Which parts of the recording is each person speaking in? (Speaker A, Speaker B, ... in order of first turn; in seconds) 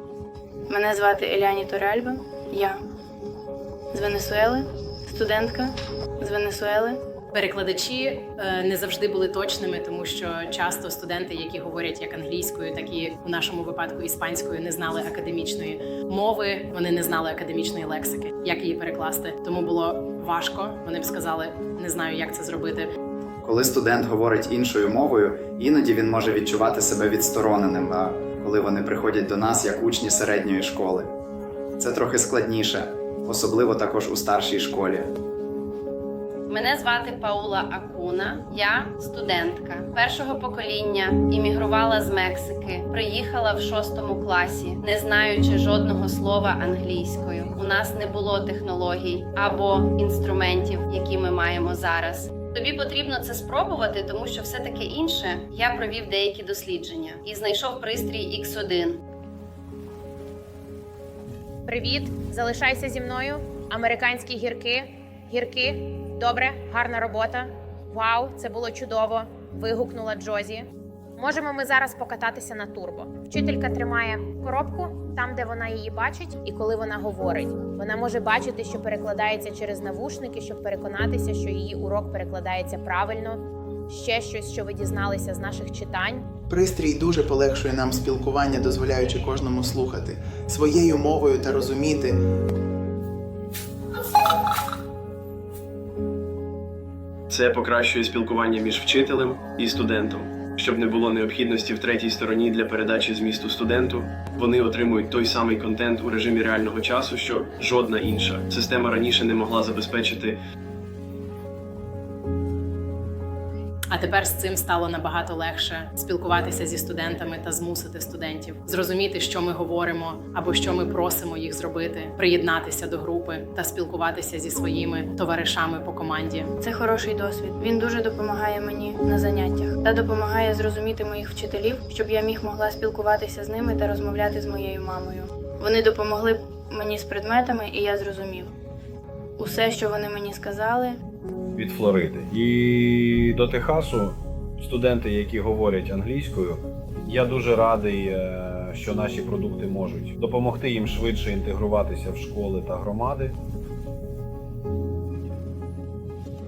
Speaker A: 0.7-2.8, 3.9-7.0, 126.6-138.5, 139.4-141.0
Speaker B: 7.3-22.9, 113.9-126.5
Speaker C: 23.4-31.1, 31.8-35.1
Speaker D: 36.5-59.0
Speaker E: 61.6-70.7, 71.2-86.2
Speaker F: 86.5-92.2
Speaker G: 97.3-110.3
Speaker H: 141.5-153.3